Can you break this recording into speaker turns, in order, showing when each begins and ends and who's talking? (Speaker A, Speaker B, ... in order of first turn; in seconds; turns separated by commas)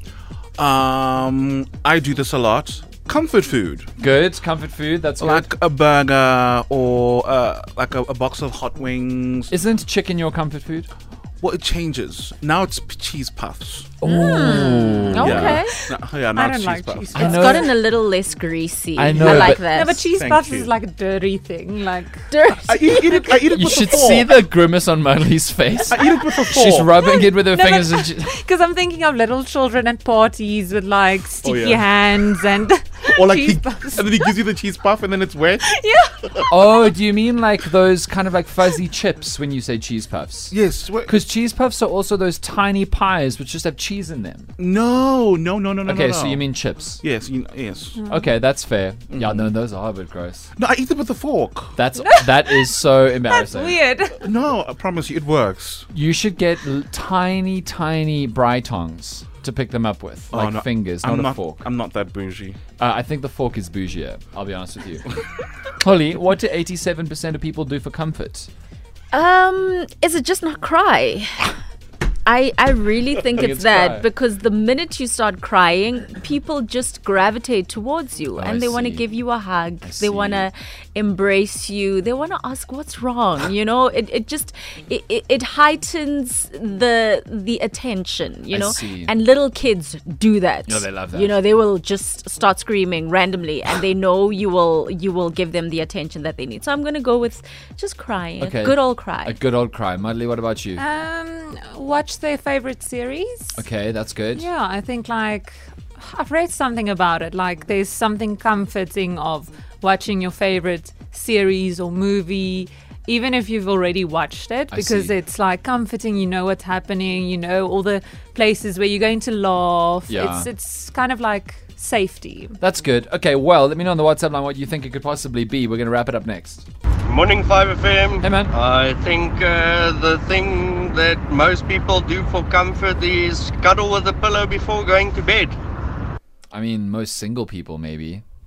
Speaker A: 0.6-3.9, Speaker B: 4.0-5.5, Speaker A: 5.2-9.5, Speaker B: 9.5-10.9, Speaker A: 11.4-14.0, Speaker B: 14.0-15.7, Speaker C: 14.0-15.8, Speaker A: 15.2-17.5, Speaker D: 16.3-17.7, Speaker B: 17.1-17.7, Speaker C: 17.2-20.0, Speaker B: 18.9-19.6, Speaker D: 19.3-22.4, Speaker A: 20.1-20.7, Speaker C: 22.3-23.4, Speaker A: 22.6-24.3, Speaker D: 23.0-23.3, Speaker B: 23.5-28.3, Speaker A: 25.9-26.9, Speaker D: 27.0-34.3, Speaker A: 31.4-31.9, Speaker A: 33.1-35.6, Speaker D: 35.6-36.5, Speaker B: 36.5-40.5, Speaker A: 40.5-41.1, Speaker B: 41.1-44.5, Speaker A: 44.6-46.4, Speaker B: 45.9-47.0, Speaker A: 47.0-48.0, Speaker D: 48.0-48.3, Speaker B: 48.1-50.5, Speaker A: 49.1-49.5, Speaker A: 50.6-51.8, Speaker B: 51.8-53.8, Speaker D: 51.9-54.3, Speaker A: 54.2-55.9, Speaker B: 55.9-61.6, Speaker A: 60.3-62.6, Speaker B: 62.8-65.1, Speaker B: 65.8-68.5, Speaker C: 69.1-71.5, Speaker C: 72.2-99.4, Speaker B: 73.3-74.0, Speaker B: 78.3-79.1, Speaker B: 79.8-80.5, Speaker B: 88.5-89.1, Speaker B: 90.7-91.4, Speaker B: 98.4-100.8, Speaker D: 100.8-103.6, Speaker B: 103.5-104.4, Speaker D: 104.3-122.6, Speaker B: 114.7-115.1, Speaker B: 120.1-120.5, Speaker B: 122.6-126.7, Speaker E: 127.0-135.6, Speaker B: 128.2-128.5, Speaker B: 136.5-138.2